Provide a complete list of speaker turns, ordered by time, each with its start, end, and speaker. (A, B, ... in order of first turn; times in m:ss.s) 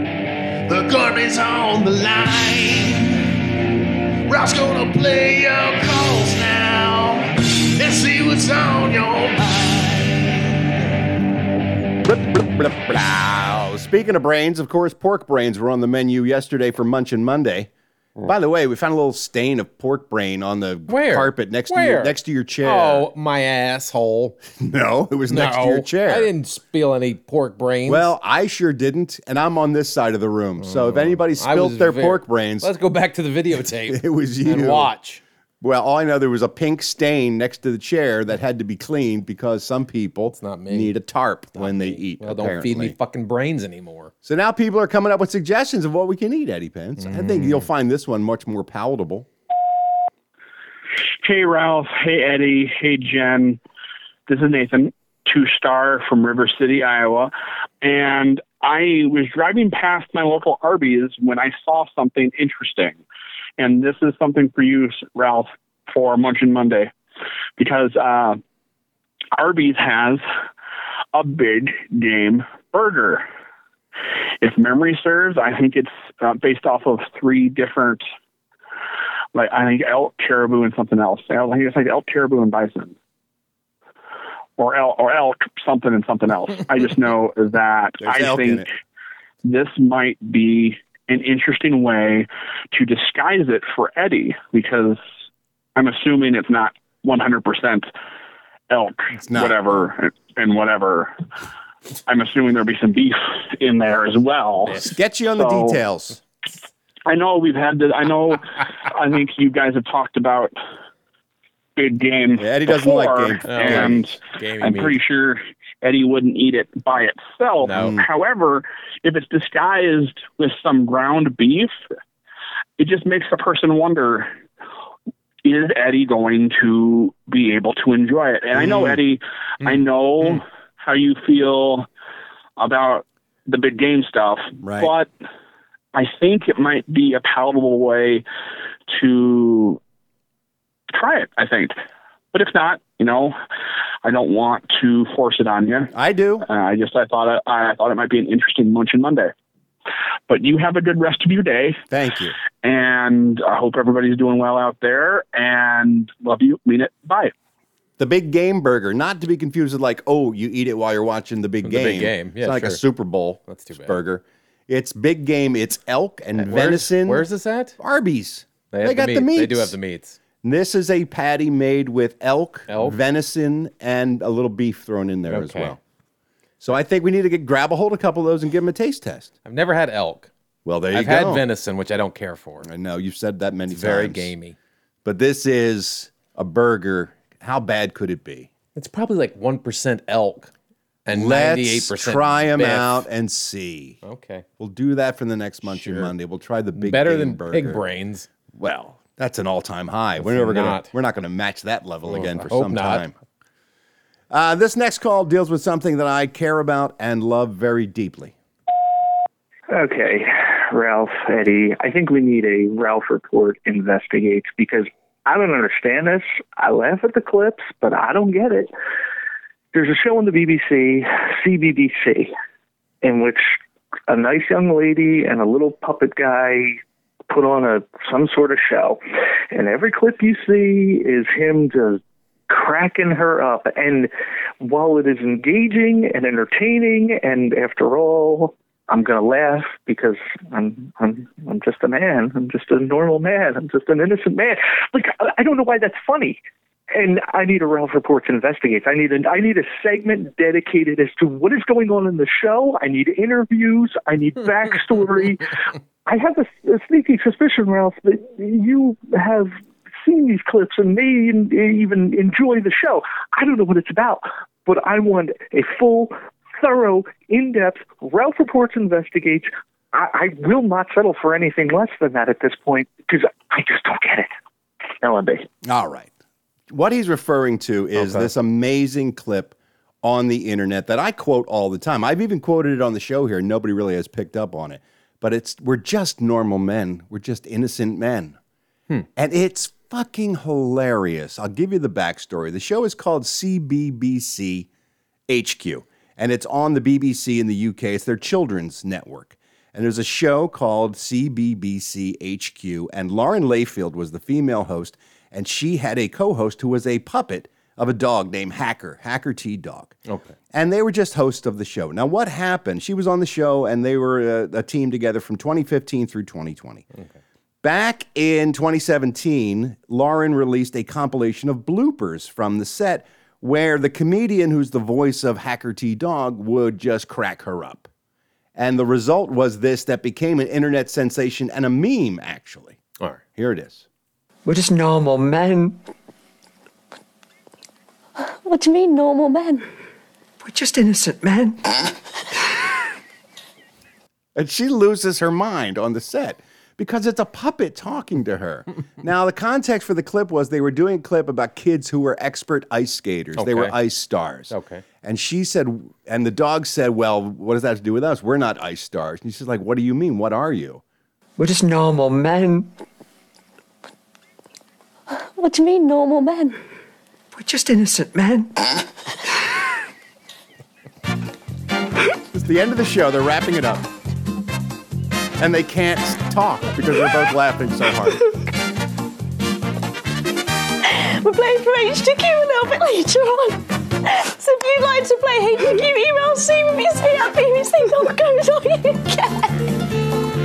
0:00.7-0:03.2 A
0:04.3-0:10.6 A
0:12.0-0:23.1 B
0:20.9-0:24.4 C
0:24.6-0:26.3 B
0:25.3-0:28.1 C
0:27.9-0:32.7 B
0:30.6-0:35.2 C
0:33.9-0:34.9 B
0:35.6-0:43.0 B
0:40.3-0:40.9 C
0:41.6-0:44.1 C
0:44.2-0:49.3 B
0:47.0-0:47.7 C
0:51.2-0:53.6 D
0:54.3-1:03.0 D
1:03.6-1:06.9 D
1:07.6-1:08.4 D
1:09.4-1:10.2 D
1:11.1-1:13.2 D
1:14.4-1:18.0 D
1:19.3-1:23.0 D
1:24.6-1:28.7 D
1:28.0-1:28.7 B
1:29.4-1:35.0 D
1:35.8-1:37.9 D
1:38.7-1:41.1 D
1:39.2-1:39.9 B
1:42.1-1:44.8 D
1:44.7-1:46.2 B
1:45.4-1:45.8 D
1:47.1-1:50.5 D
1:51.8-2:01.7 D
1:52.4-1:54.0 B
1:53.5-1:55.0 C
1:57.6-1:58.0 C
1:57.7-1:58.0 B
2:02.8-2:04.3 D
2:05.4-2:11.9 D
2:08.6-2:09.0 B
2:09.6-2:10.4 C
2:12.6-2:15.1 D
2:14.6-2:14.9 B
2:15.9-2:18.2 D
2:18.9-2:19.8 D
2:20.9-2:21.8 D
2:22.3-2:23.4 D
2:24.0-2:25.9 D
2:25.9-2:26.5 B
2:26.5-2:29.3 D
2:30.3-2:31.8 D
2:31.9-2:32.4 B
2:32.6-2:37.3 D
2:38.0-2:47.3 B
2:41.6-2:42.8 C
2:43.5-2:44.0 C
2:46.4-2:47.8 C
2:47.8-2:49.8 B
2:48.7-2:50.2 C
2:50.4-2:55.8 B
2:52.7-2:53.0 C
2:55.3-2:55.8 C
2:56.6-2:59.3 B
2:59.4-3:00.3 C
3:00.6-3:01.4 B
3:00.9-3:02.7 C
3:02.6-3:04.3 B
3:03.7-3:04.6 C
3:05.0-3:08.5 B
3:08.8-3:10.5 C
3:11.1-3:13.1 C
3:11.1-3:14.0 B
3:14.0-3:14.5 C
3:14.6-3:17.8 B
3:15.6-3:16.1 C
3:16.8-3:18.3 C
3:18.5-3:23.1 B
3:20.2-3:20.9 C
3:22.1-3:23.1 C
3:24.3-3:28.3 B
3:29.7-3:38.7 E
3:39.7-3:42.3 E
3:43.0-3:43.6 E
3:44.1-3:49.0 E
3:49.5-4:06.4 E
4:06.9-4:34.3 E
4:35.0-4:35.5 E
4:35.6-4:36.1 B
4:36.7-4:48.4 B
4:38.0-4:38.3 C
4:49.2-4:54.7 B
4:55.3-5:10.0 B
5:10.1-5:10.4 C
5:10.5-5:16.9 B
5:17.6-5:27.9 B
5:28.6-5:32.8 B
5:33.4-5:33.9 B
5:34.4-5:35.8 F
5:38.4-5:39.7 G
5:40.4-5:42.0 F
5:44.4-6:00.8 B
5:53.4-5:53.8 C
5:54.5-5:54.8 C
6:01.4-6:02.7 F
6:05.4-6:06.6 G
6:07.3-6:08.9 F
6:12.3-6:13.9 B
6:15.4-6:18.3 B
6:20.8-6:29.6 G